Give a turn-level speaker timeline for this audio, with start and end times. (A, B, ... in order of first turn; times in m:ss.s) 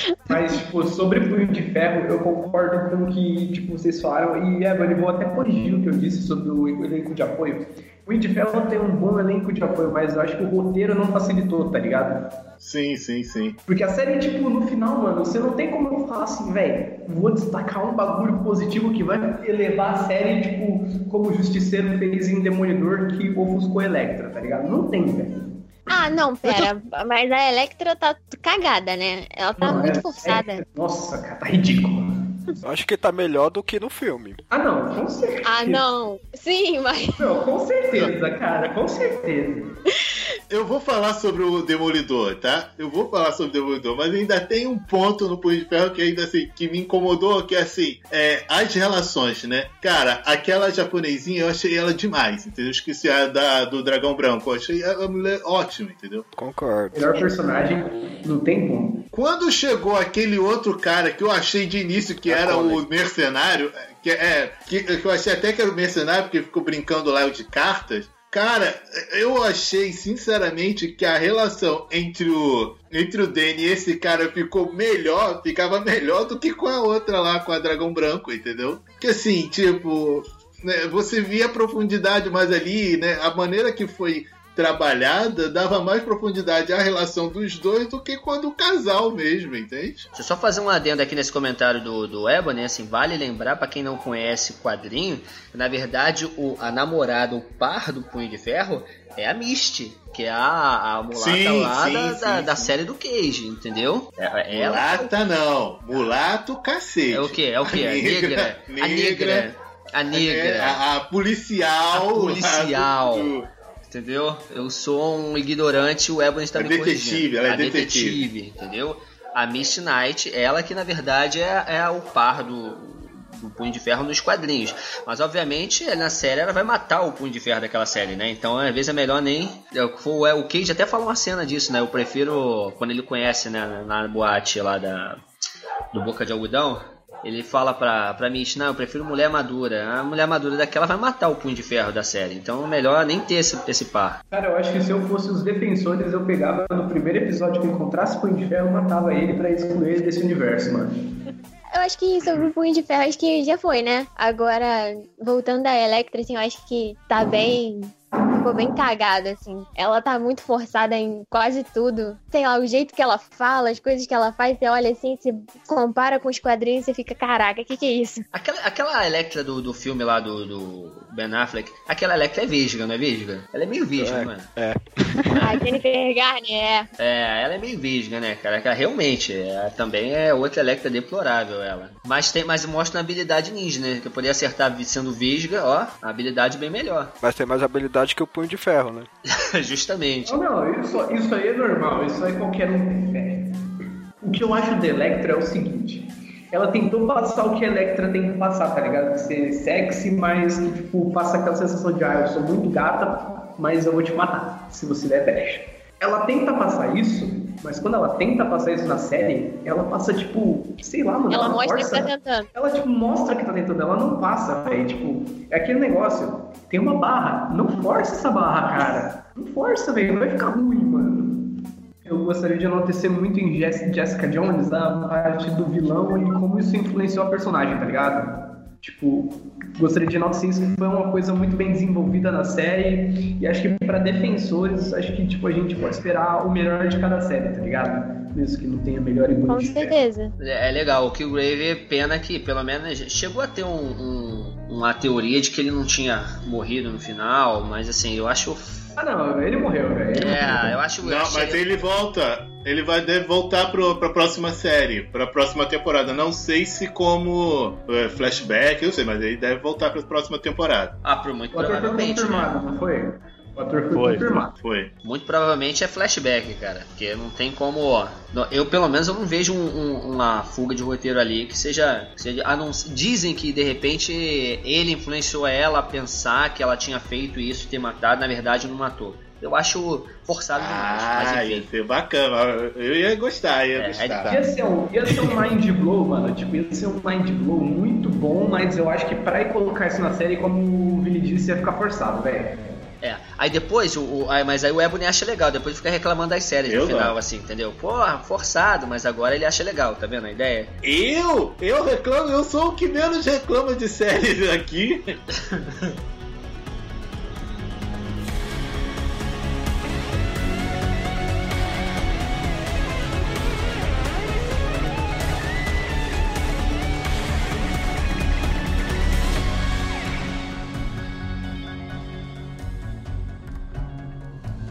0:00.3-0:12.4 A
0:12.6-0:13.6 B
0:13.7-0:25.5 A
0:25.9-0:30.6 C
0:29.6-0:32.6 A
0:32.6-0:34.4 D
0:34.5-0:35.9 A
0:35.4-0:37.4 C
0:37.2-0:39.8 A
0:40.5-0:56.3 B
0:56.4-0:57.2 D
0:56.9-0:59.0 A
0:59.1-1:30.1 B
1:02.2-1:02.8 E
1:30.1-1:45.1 E
1:41.1-1:42.7 B
1:44.5-1:49.5 B
1:47.1-1:50.8 E
1:50.1-1:53.5 B
1:51.9-1:53.4 E
1:53.9-2:15.2 E
1:56.6-1:58.3 B
2:15.9-2:24.2 E
2:24.3-2:30.9 A
2:31.7-2:48.2 C
2:48.3-2:54.5 E
2:54.0-2:55.7 D
2:55.4-2:56.9 C
2:57.0-3:07.1 E
3:07.2-3:09.1 D
3:09.4-3:10.4 E
3:10.2-3:13.7 A
3:14.2-4:00.0 A
3:31.3-3:32.5 C
3:59.5-4:00.3 C
4:00.4-4:08.9 E
4:09.0-4:10.8 A
4:10.1-4:11.8 E
4:11.0-4:21.0 B
4:21.0-4:22.6 E
4:21.5-4:24.5 A
4:23.9-4:24.9 B
4:25.0-4:41.7 E
4:40.6-4:44.4 B
4:43.7-4:44.3 E
4:44.2-4:52.8 A
4:53.0-5:00.7 E
4:56.7-4:57.2 B
5:00.8-5:05.2 B